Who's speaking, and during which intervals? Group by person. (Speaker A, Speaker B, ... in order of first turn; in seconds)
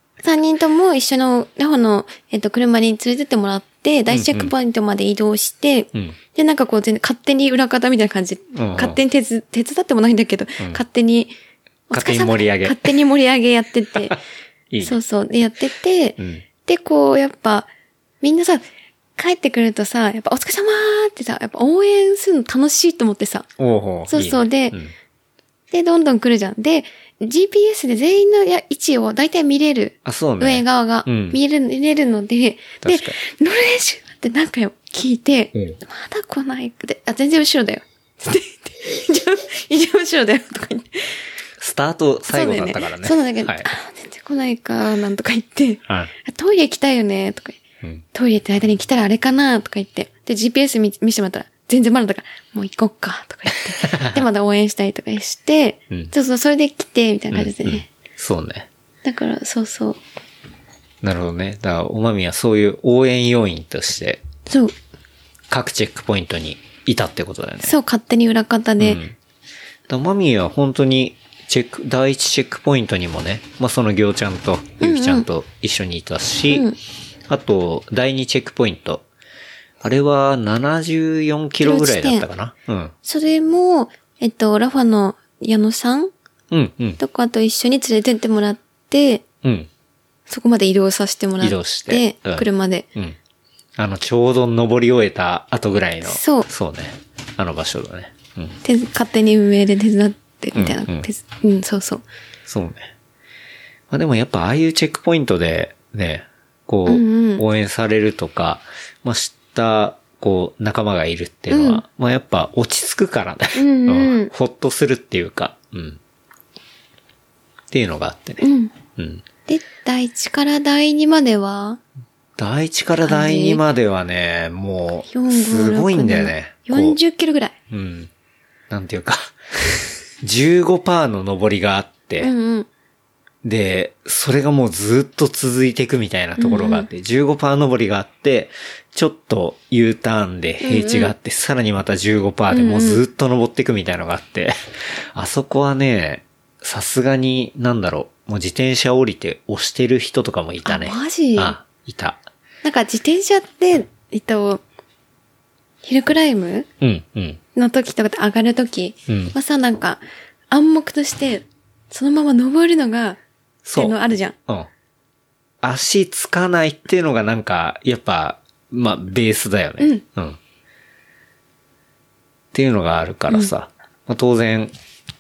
Speaker A: 0.2-11.3, 11.9-14.2, 14.8-17.7, 18.2-18.6, 19.2-23.5, 24.1-24.8, 25.7-41.1, 42.3-47.6, 48.1-57.9, 59.0-60.0, 64.5-64.7, 67.6-69.0, 74.8-75.3, 76.5-76.8, 81.6-82.3, 83.0-86.1, 87.0-89.2, 90.3-92.8, 96.0-96.5, 98.6-102.0, 106.8-107.4, 111.5-111.8, 113.5-114.3, 118.4-118.7, 119.5-121.8, 123.0-123.6, 125.1-127.5, 132.2-132.7, 136.4-136.9, 140.6-141.1, 142.5-143.0, 150.6-151.6, 152.6-154.6, 155.8-156.7, 157.5-163.2, 163.7-164.3
Speaker B: 4.1-4.5, 8.5-9.0, 11.9-12.9, 14.7-15.0, 16.2-16.4, 23.6-24.9, 30.0-31.4, 32.8-33.2, 41.6-43.7, 53.8-54.2, 57.3-58.7, 61.0-64.2, 65.5-67.8, 68.8-69.2, 69.9-76.7, 77.3-79.0, 79.8-82.9, 86.5-87.0, 89.4-89.7, 91.4-93.2, 93.8-98.6, 100.5-101.1, 102.5-102.9, 103.9-116.0, 117.7-118.4, 119.0-119.2, 122.4-127.0, 127.7-128.1, 128.7-129.3, 130.2-132.3, 133.4-152.2, 156.8-157.4, 159.1-159.3, 163.6-164.0, 165.6-170.4, 172.5-174.7